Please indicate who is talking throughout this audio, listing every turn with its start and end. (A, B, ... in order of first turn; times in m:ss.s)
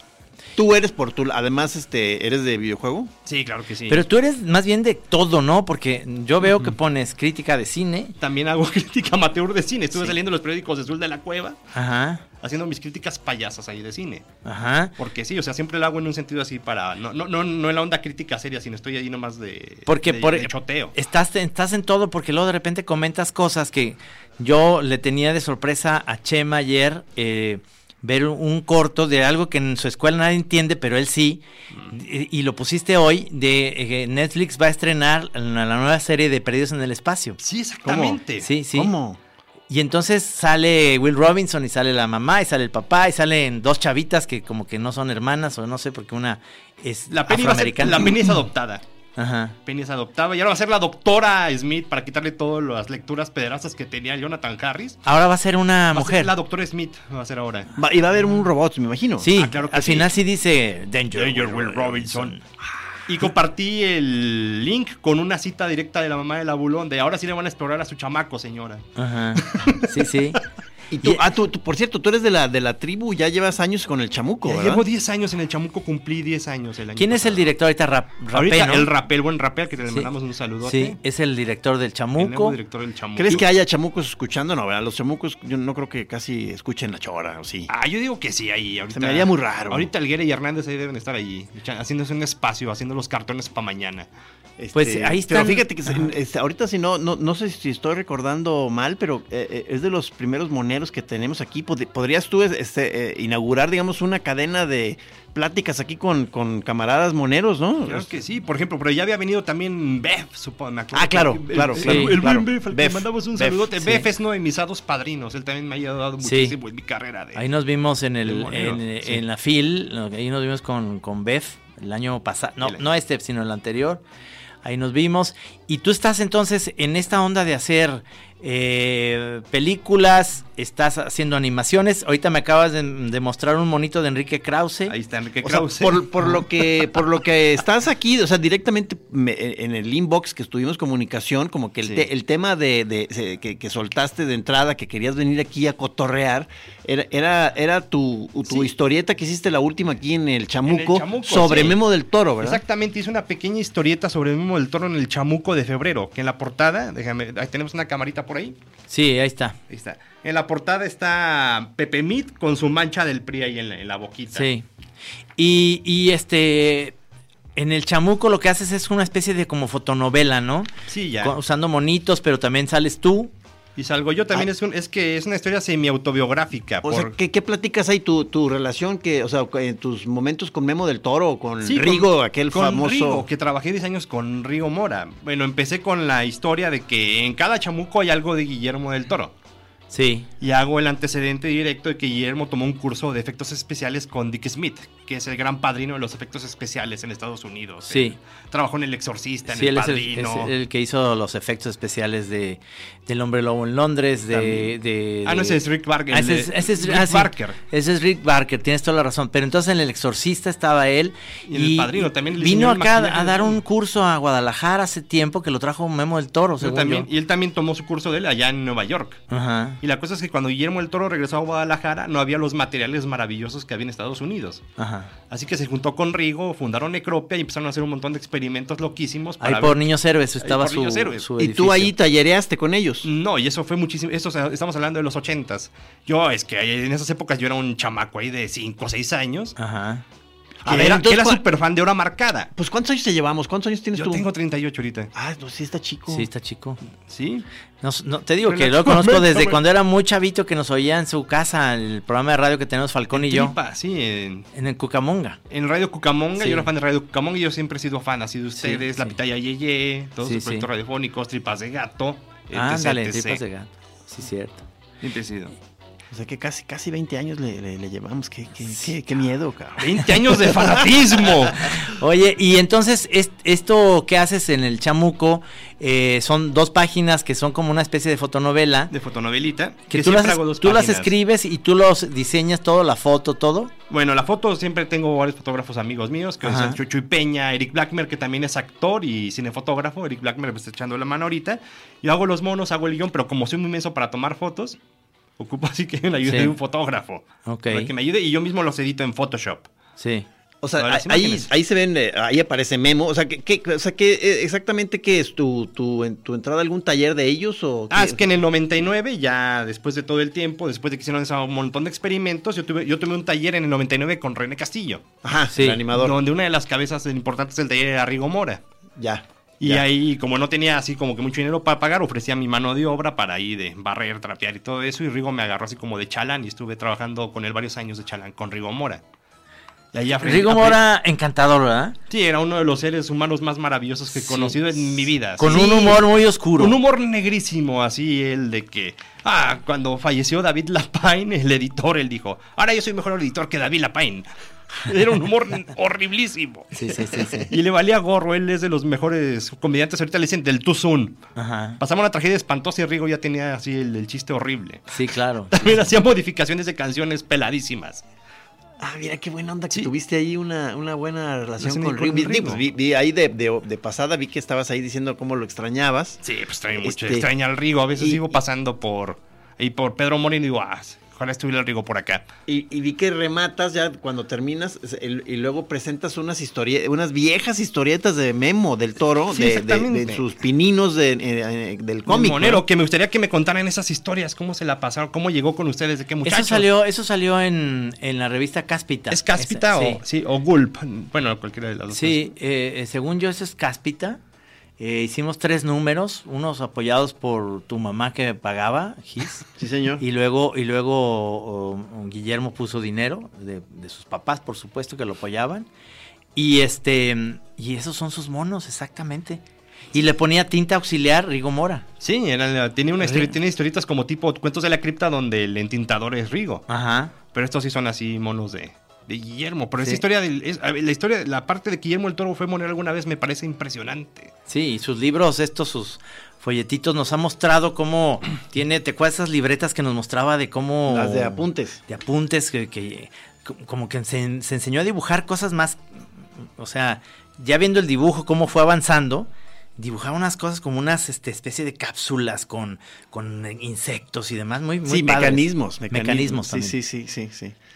0:00.6-0:03.1 A
0:03.2-0:04.0 B
0:03.9-0:08.1 C
0:06.4-0:06.7 B
0:08.2-0:11.6 B
0:11.7-0:12.2 C
0:12.4-0:14.3 B
0:14.4-0:14.9 C
0:15.0-0:20.9 B
0:19.9-0:37.4 C
0:37.4-0:38.5 B
0:37.8-0:39.2 A
0:38.4-0:38.9 C
0:39.7-0:48.1 C
0:47.1-0:48.8 B
0:49.2-0:49.6 C
0:49.6-0:55.0 B
0:55.0-0:56.3 C
0:55.9-0:57.7 B
0:57.8-0:59.3 A
0:59.2-1:02.4 C
0:59.3-1:00.1 B
1:01.1-1:02.4 B
1:03.1-1:08.8 B
1:09.0-1:10.4 C
1:09.4-1:10.0 B
1:10.9-1:14.8 A
1:14.4-1:17.5 B
1:17.0-1:18.9 C
1:18.3-1:21.0 B
1:20.6-1:22.6 C
1:22.2-1:23.4 B
1:23.2-1:27.7 A
1:27.7-1:34.1 B
1:28.9-1:29.9 A
1:34.6-1:48.1 A
1:34.7-1:35.7 C
1:47.8-1:57.4 B
1:50.9-1:53.7 A
1:51.8-1:52.2 C
1:53.8-1:54.1 C
1:56.2-1:56.6 C
1:57.3-2:04.0 C
1:58.2-1:59.2 B
2:04.6-2:14.9 C
2:14.9-2:16.4 B
2:15.4-2:32.6 A
2:28.4-2:28.7 B
2:30.6-2:31.8 B
2:32.4-2:38.6 B
2:38.9-2:39.6 C
2:39.7-2:44.5 B
2:44.3-2:44.6 C
2:45.4-2:47.0 C
2:47.6-2:53.3 C
2:50.9-2:51.3 B
2:53.8-2:57.1 B
2:56.8-3:03.2 A
3:01.6-3:09.3 B
3:09.9-3:10.3 C
3:10.4-3:20.5 B
3:17.9-3:18.2 C
3:19.5-3:37.1 C
3:24.3-3:27.6 B
3:31.5-3:33.6 B
3:36.6-3:39.2 B
3:39.3-3:39.8 C
3:39.8-3:44.6 B
3:44.8-3:45.1 C
3:45.3-3:49.8 B
3:49.4-3:51.9 C
3:50.4-3:51.2 B
3:51.4-3:53.1 A
3:53.0-3:59.6 B
3:59.6-4:00.0 C
4:00.6-4:01.4 A
4:00.6-4:02.5 B
4:02.6-4:04.2 A
4:03.9-4:05.1 B
4:05.1-4:06.3 A
4:06.1-4:06.8 C
4:07.1-4:07.4 B
4:07.8-4:13.6 C
4:08.4-4:09.6 B
4:13.1-4:14.5 B
4:14.5-4:15.4 C
4:15.5-4:23.4 B
4:16.4-4:16.7 C
4:18.6-4:19.1 C
4:20.2-4:20.7 C
4:22.5-4:24.6 C
4:25.0-4:25.5 B
4:26.1-4:30.8 A
4:29.8-4:31.7 B
4:31.8-4:38.9 C
4:38.9-4:41.1 B
4:39.9-4:43.7 C
4:43.9-4:54.8 B
4:46.4-4:46.8 C
4:55.4-4:59.7 B
4:56.2-4:56.5 C
4:57.4-4:57.9 C
5:00.0-5:00.3 C
5:00.6-5:08.2 A
5:00.8-5:01.5 B
5:07.9-5:15.0 B
5:15.2-5:16.2 A
5:15.5-5:15.8 C
5:15.9-5:18.6 B
5:19.0-5:19.8 A
5:19.6-5:29.0 B
5:29.9-5:30.8 B
5:30.2-5:32.0 C
5:32.1-5:44.3 B
5:34.1-5:34.6 C
5:35.4-5:36.8 C
5:44.8-5:46.7 B
5:46.7-5:47.5 C
5:47.5-5:51.2 B
5:51.4-5:51.8 C
5:51.8-5:58.0 B
5:54.9-5:55.8 C
5:58.8-6:06.2 A
6:01.6-6:02.6 B
6:06.2-6:12.2 B
6:06.8-6:07.3 A
6:07.9-6:08.4 A
6:12.5-6:22.6 A
6:19.3-6:20.2 B
6:22.1-6:26.7 B
6:26.2-6:30.0 C
6:29.1-6:32.3 B
6:31.9-6:34.2 C
6:34.8-6:39.4 C
6:39.6-6:40.0 A
6:40.0-6:45.7 C
6:46.4-6:49.4 C
6:49.9-6:51.8 C
6:52.0-6:56.6 B
6:53.0-6:53.4 C
6:56.7-6:57.1 C
6:57.3-7:04.3 B
7:04.5-7:26.8 C
7:10.9-7:11.8 A
7:24.8-7:27.5 A